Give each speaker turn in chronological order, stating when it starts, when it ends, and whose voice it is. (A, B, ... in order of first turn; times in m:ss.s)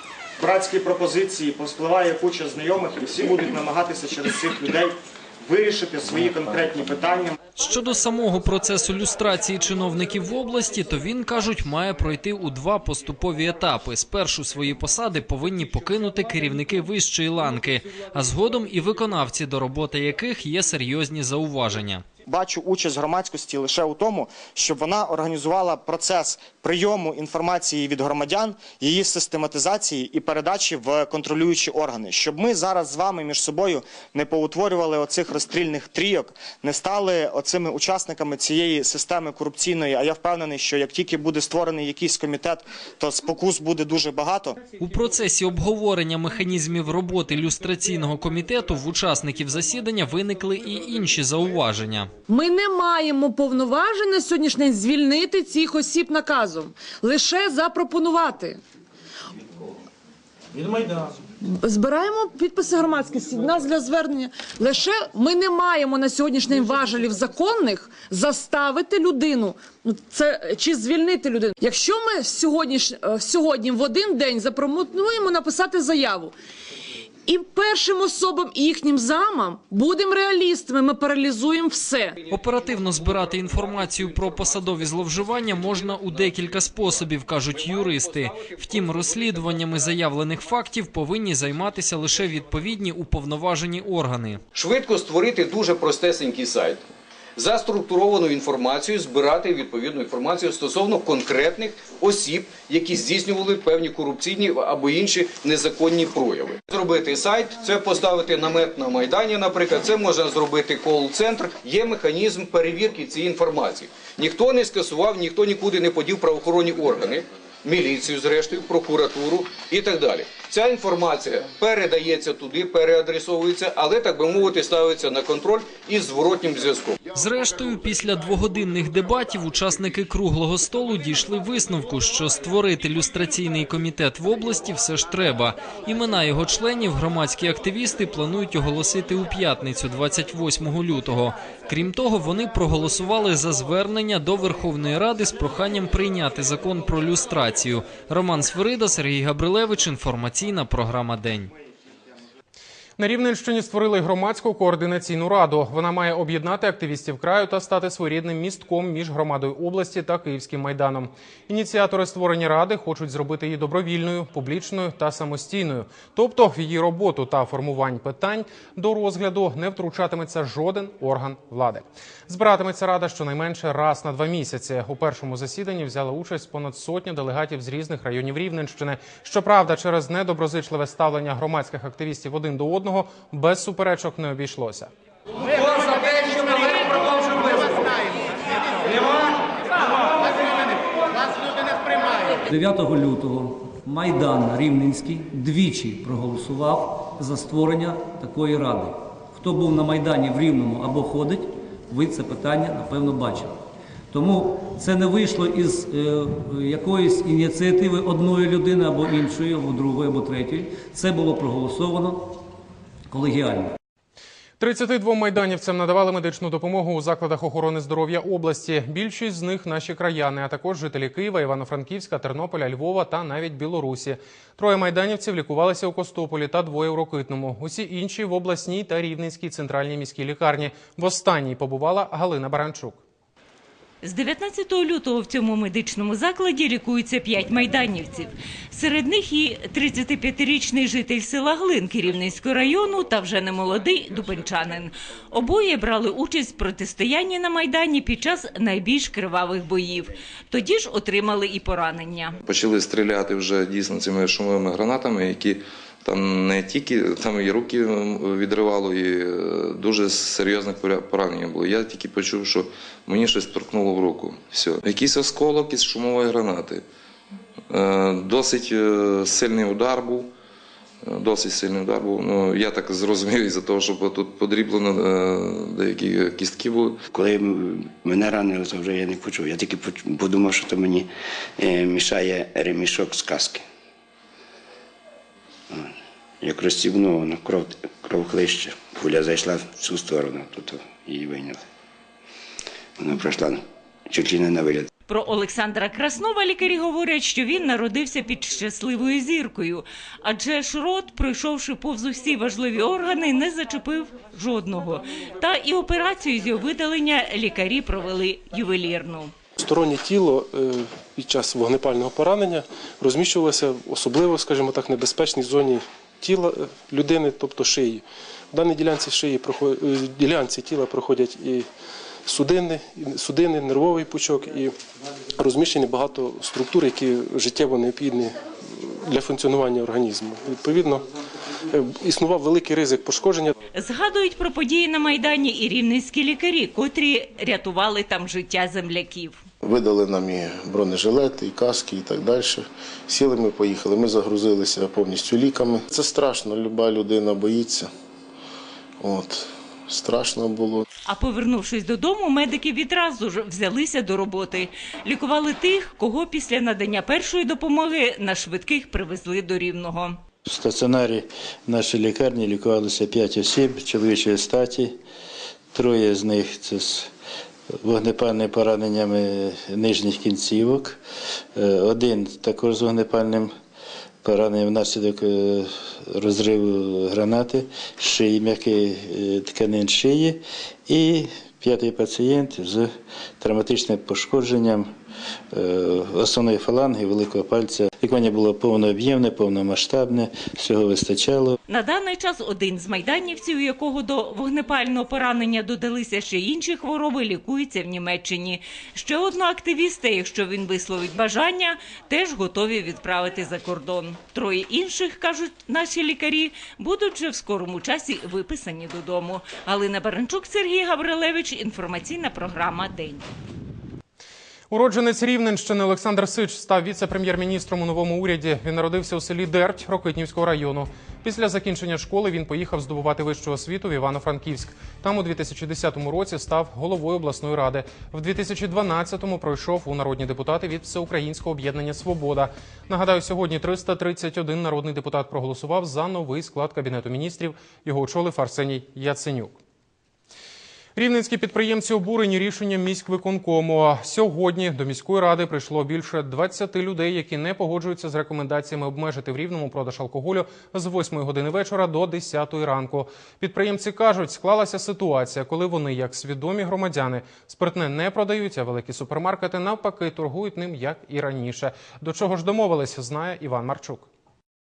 0:00.4-0:07.4 A
0:07.6-0:22.0 B
0:22.3-0:44.6 A
0:44.8-0:52.1 B
0:52.3-0:58.6 C
1:01.4-1:16.3 C
1:17.3-1:22.2 C
1:22.3-1:34.4 B
1:34.6-1:36.8 D
1:37.4-2:07.0 D
2:07.1-2:31.5 B
2:33.0-3:04.9 E
3:12.5-3:23.6 F
3:24.1-3:32.4 F
3:33.1-3:33.7 F
3:34.6-3:53.0 E
3:54.0-4:12.4 G
4:12.4-4:26.8 H
4:27.7-4:30.3 H
4:31.0-4:37.0 H
4:37.1-4:43.6 I
4:45.7-4:51.6 I
4:53.0-4:54.9 I
4:55.1-5:09.3 G
5:09.6-5:21.7 J
5:22.2-5:24.7 J
5:25.4-5:31.1 J
5:31.7-5:33.6 J
5:33.8-5:39.4 G
5:39.7-5:47.9 K
5:49.0-5:50.8 K
5:51.1-6:00.2 G
6:00.5-6:05.0 L
6:05.7-6:07.1 L
6:07.8-6:11.0 L
6:11.6-6:13.5 L
6:14.2-6:24.9 L
6:25.5-6:31.6 L
6:31.7-6:53.3 G
6:54.7-7:19.6 E
7:21.0-7:44.1 E